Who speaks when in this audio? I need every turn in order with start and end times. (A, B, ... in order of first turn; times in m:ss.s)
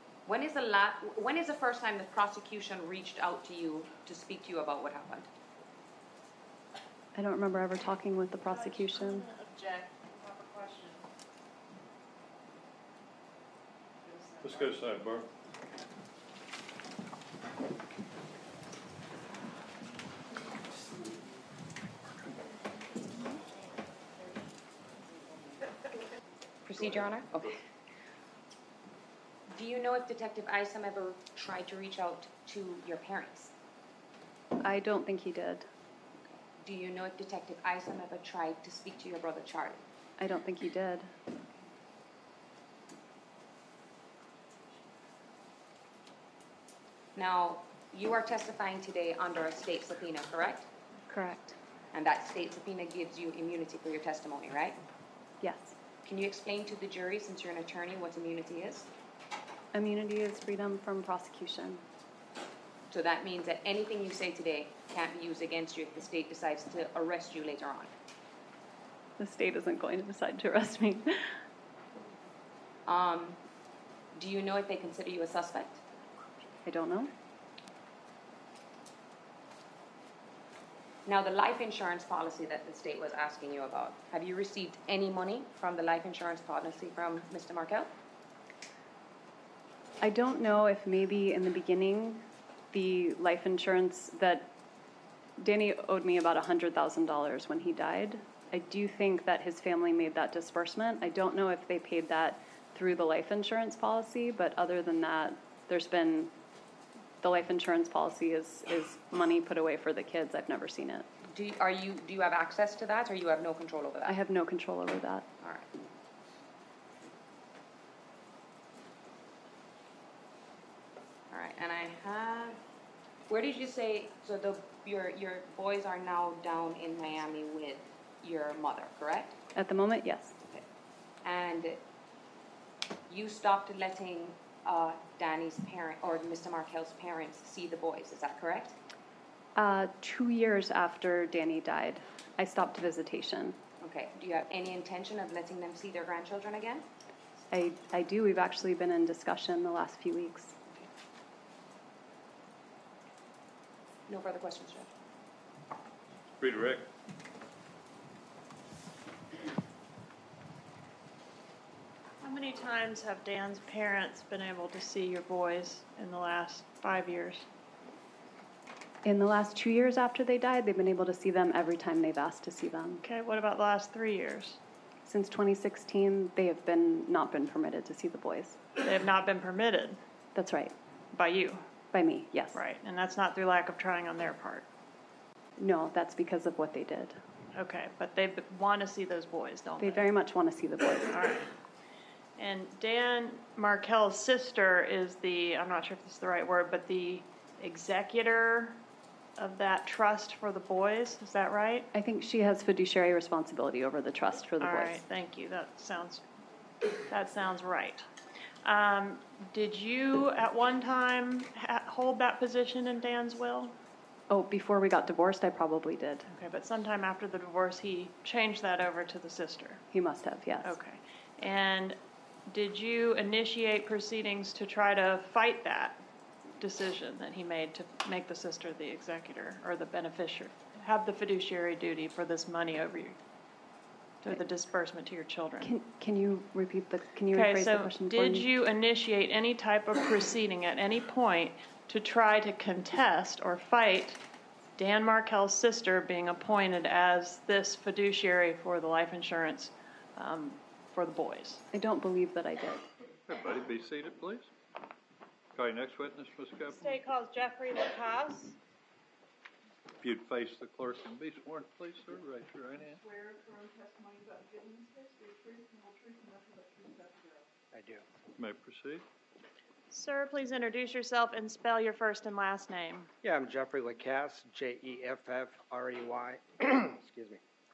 0:00.3-0:05.3 A
0:07.2-0:09.3 B
0:08.5-0:11.1 C
0:14.0-0:14.8 C
0:14.4-0:15.3 D
0:26.6-0:27.6 A
0:29.5-0:33.5 A
0:34.6-0:35.7 B
0:36.3-0:39.8 A
0:40.2-0:41.1 B
0:47.2-0:50.7 A
0:51.1-0:51.6 B
0:51.9-0:54.8 A
0:55.4-0:55.8 B
0:56.0-0:58.9 A
0:59.7-1:01.8 B
1:02.9-1:07.9 A
1:09.2-1:11.4 B
1:12.9-1:13.4 A
1:14.1-1:15.8 A
1:16.6-1:17.1 B
1:21.1-1:27.9 A
1:30.0-1:34.5 B
1:35.4-1:46.3 B
1:47.2-1:51.1 B
1:51.3-1:54.2 A
1:54.0-1:55.3 B
1:55.4-1:55.7 A
2:01.3-2:02.6 A
2:03.3-2:09.4 A
2:09.5-2:10.4 B
2:11.2-2:11.8 A
2:13.1-2:18.8 A
2:19.6-2:23.6 B
2:23.8-2:26.9 A
2:27.5-2:30.6 B
2:34.1-2:34.9 A
2:36.4-2:36.9 D
2:42.2-2:47.5 C
2:49.0-2:53.0 B
2:53.0-2:54.6 C
2:55.0-2:58.6 B
2:58.8-3:00.0 C
3:00.4-3:00.8 B
3:01.1-3:01.6 C
3:01.9-3:02.6 B
3:02.5-3:04.7 C
3:05.6-3:07.2 B
3:07.5-3:10.1 C
3:09.8-3:11.2 B
3:11.1-3:11.5 C
3:12.4-3:18.8 C
3:19.4-3:21.9 C
3:21.9-3:25.0 B
3:24.6-3:26.2 C
3:27.1-3:28.1 C
3:28.6-3:33.7 C
3:34.3-3:36.3 B
3:36.3-3:39.8 C
3:39.9-3:40.7 B
3:40.6-3:46.0 C
3:46.6-3:53.2 C
3:54.2-3:55.7 C
3:55.6-3:58.5 B
3:57.3-4:04.2 C
4:04.8-4:11.6 C
4:11.7-4:12.8 B
4:13.3-4:14.5 D
4:15.6-4:17.0 D
4:16.8-4:18.6 C
4:20.0-4:23.0 D
4:22.8-4:27.5 E
4:27.7-4:28.0 F
4:28.4-4:29.0 D
4:29.9-4:33.1 C
4:33.2-4:37.4 F